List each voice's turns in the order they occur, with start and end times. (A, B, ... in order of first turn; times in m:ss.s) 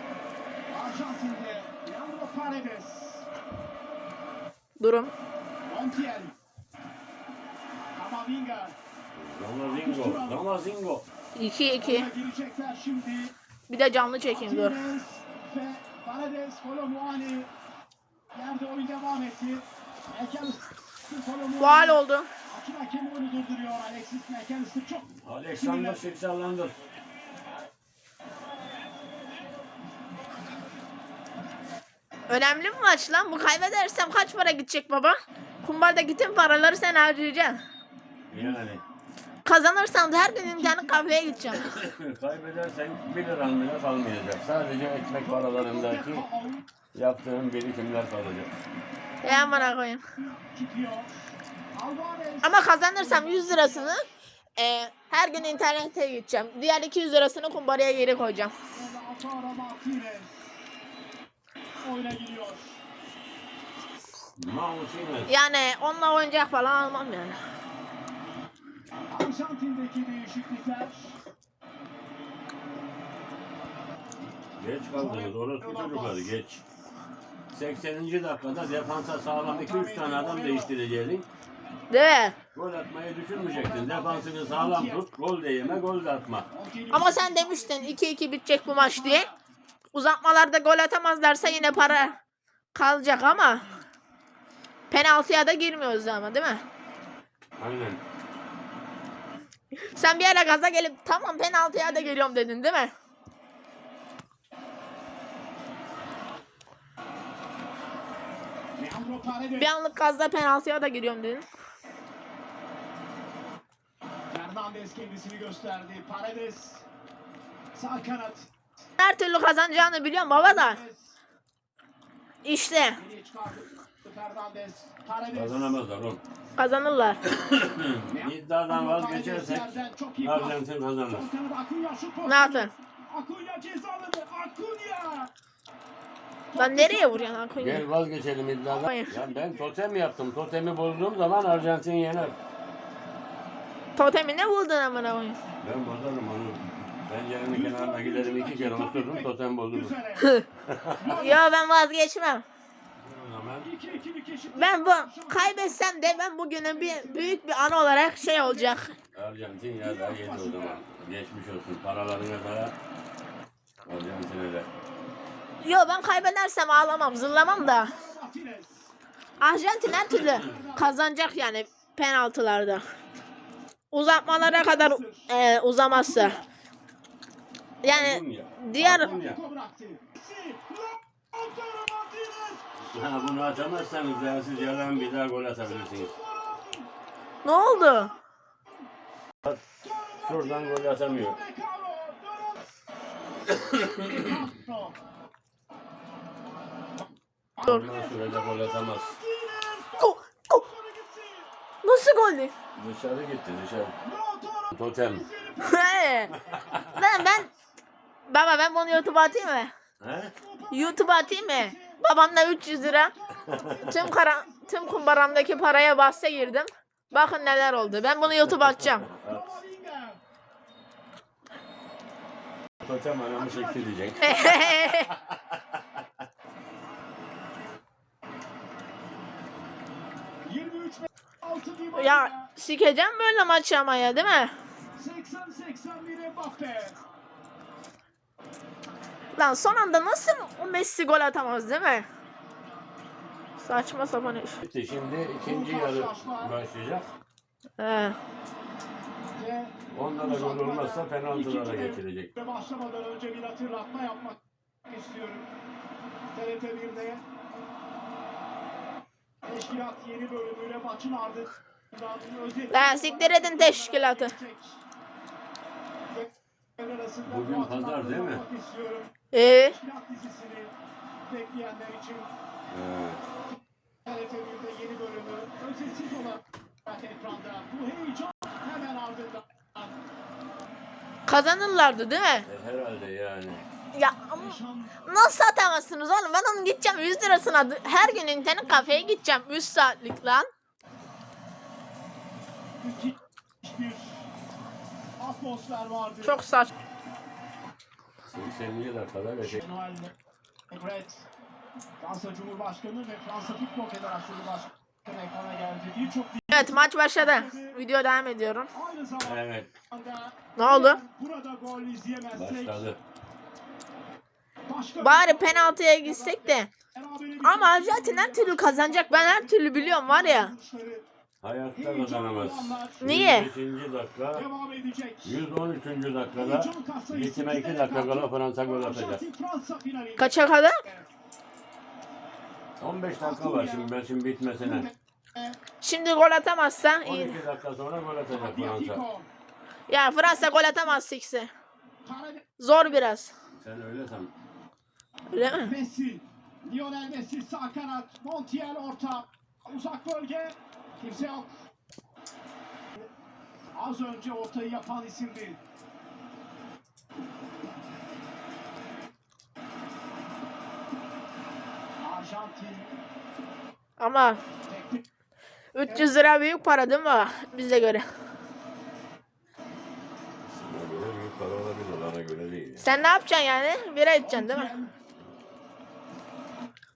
0:00.7-0:03.3 A
0:04.8-0:05.1 B
0:05.6-0:06.3 A
0:07.9-0:08.8 A
0:09.1-0:11.0 C
0:09.6-0:10.5 A
0:11.3-0:12.1 B
0:11.8-0:13.3 A
0:13.7-0:14.8 B
0:14.2-0:17.5 A
0:18.3-0:26.1 A
0:21.6-0:22.3 B
0:25.2-0:26.8 C
0:32.3-0:37.6 B
0:38.3-0:38.7 A
0:38.3-0:38.8 C
0:39.4-0:41.7 B
0:40.4-0:41.7 A
0:41.5-0:46.2 C
0:45.2-0:46.6 A
0:46.9-0:48.5 C
0:49.2-0:50.0 B
0:49.2-0:54.2 A
0:52.4-0:54.0 B
0:54.6-0:58.5 B
0:58.7-1:00.6 A
1:01.8-1:02.8 A
1:04.4-1:05.3 C
1:05.3-1:07.4 B
1:09.1-1:11.2 A
1:14.6-1:16.6 C
1:14.9-1:16.3 A
1:17.5-1:21.3 C
1:19.4-1:20.8 A
1:21.9-1:22.4 B
1:22.5-1:26.5 C
1:23.3-1:25.0 A
1:26.5-1:28.0 A
1:26.9-1:29.3 B
1:28.6-1:29.4 A
1:29.9-1:32.2 B
1:31.4-1:32.2 A
1:32.7-1:33.6 B
1:33.2-1:33.8 A
1:34.9-1:36.6 B
1:37.6-1:38.0 C
1:39.9-1:42.9 B
1:41.7-1:42.3 A
1:48.8-1:49.8 A
1:49.6-1:51.4 B
1:54.3-1:56.8 A
1:57.7-1:58.5 A
1:59.0-2:00.8 B
2:00.2-2:01.2 A
2:02.4-2:03.0 B
2:03.0-2:05.8 A
2:05.3-2:06.2 C
2:06.6-2:07.2 B
2:07.2-2:11.3 C
2:08.1-2:15.3 A
2:12.2-2:12.7 B
2:16.5-2:17.4 A
2:16.6-2:17.8 B
2:17.6-2:22.4 C
2:18.7-2:19.2 B
2:18.9-2:19.7 A
2:24.0-2:25.4 B
2:25.6-2:30.0 C
2:27.5-2:30.3 A
2:30.7-2:31.0 C
2:31.0-2:31.5 A
2:31.1-2:32.4 B
2:33.0-2:33.8 C
2:33.6-2:38.8 A
2:34.6-2:38.9 B
2:39.1-2:42.7 C
2:39.8-2:40.9 A
2:43.8-2:44.7 C
2:45.6-2:48.0 B
2:47.2-2:48.9 A
2:49.4-2:52.8 B
2:50.0-2:51.4 A
2:53.9-2:56.4 B
2:54.3-2:55.3 A
2:55.9-2:56.4 A
2:57.8-2:59.1 B
2:57.8-2:59.4 C
2:58.8-3:06.9 A
3:02.8-3:06.1 C
3:07.4-3:08.1 B
3:07.4-3:08.9 A
3:09.8-3:12.7 A
3:10.2-3:11.4 C
3:13.7-3:14.2 C
3:13.9-3:15.0 A
3:17.6-3:21.5 A
3:17.6-3:19.2 C
3:20.0-3:20.6 B
3:21.8-3:22.5 B
3:22.7-3:23.9 C
3:24.0-3:26.9 A
3:24.7-3:25.2 C
3:25.6-3:26.3 B
3:26.5-3:27.0 C
3:26.9-3:27.5 B
3:28.3-3:29.7 B
3:28.9-3:29.4 A
3:30.0-3:30.3 C
3:30.4-3:32.0 A
3:30.7-3:33.1 B
3:32.8-3:36.5 A
3:33.5-3:33.8 C
3:33.8-3:39.1 B
3:37.1-3:38.3 A
3:38.4-3:39.4 C
3:39.1-3:40.2 A
3:42.8-3:45.6 C
3:43.3-3:44.8 A
3:44.2-3:45.1 B
3:50.4-3:52.5 A
3:51.9-3:54.5 B
3:55.0-3:57.0 A
3:59.3-4:02.1 B
4:03.6-4:04.6 B
4:04.6-4:07.1 C
4:05.4-4:06.6 A
4:07.8-4:08.2 B
4:09.4-4:15.5 A
4:09.9-4:12.3 C
4:16.3-4:17.2 A
4:19.4-4:24.8 A
4:22.7-4:24.3 B
4:26.1-4:30.7 A
4:27.2-4:28.4 C
4:29.3-4:29.8 B
4:31.3-4:32.3 A
4:32.7-4:33.2 C
4:34.0-4:39.9 A
4:41.3-4:42.5 B
4:42.5-4:43.6 C
4:43.9-4:50.5 B
4:44.3-4:45.1 A
4:47.3-4:49.2 A
4:52.8-4:54.2 A
4:55.2-4:56.4 A
4:56.2-4:56.7 B
4:58.3-4:59.6 C
4:59.4-5:00.1 A
5:00.7-5:01.2 A
5:02.0-5:07.8 A
5:06.5-5:08.7 B
5:08.7-5:12.9 A
5:09.2-5:09.7 C
5:10.6-5:11.0 B
5:12.3-5:13.0 C
5:14.7-5:21.0 A
5:15.0-5:16.7 B
5:17.4-5:20.5 B
5:21.4-5:24.4 C
5:21.7-5:23.1 A
5:23.0-5:23.5 B
5:24.3-5:25.4 A
5:25.2-5:29.2 C
5:26.3-5:31.1 A
5:30.2-5:30.8 B
5:32.8-5:34.9 C
5:33.2-5:33.9 A
5:34.6-5:35.6 A
5:35.8-5:37.4 B
5:37.0-5:39.0 C
5:38.3-5:39.3 A
5:39.9-5:41.5 B
5:40.2-5:41.0 A
5:42.0-5:43.0 A
5:42.6-5:43.3 B
5:43.6-5:44.3 C
5:45.3-5:45.7 B
5:45.4-5:51.6 A
5:53.7-5:55.6 A
6:02.0-6:03.0 A
6:04.0-6:04.4 B
6:04.7-6:05.0 A
6:05.7-6:08.0 B
6:05.8-6:06.1 A
6:10.4-6:12.8 C
6:12.8-6:14.7 B
6:14.2-6:14.9 A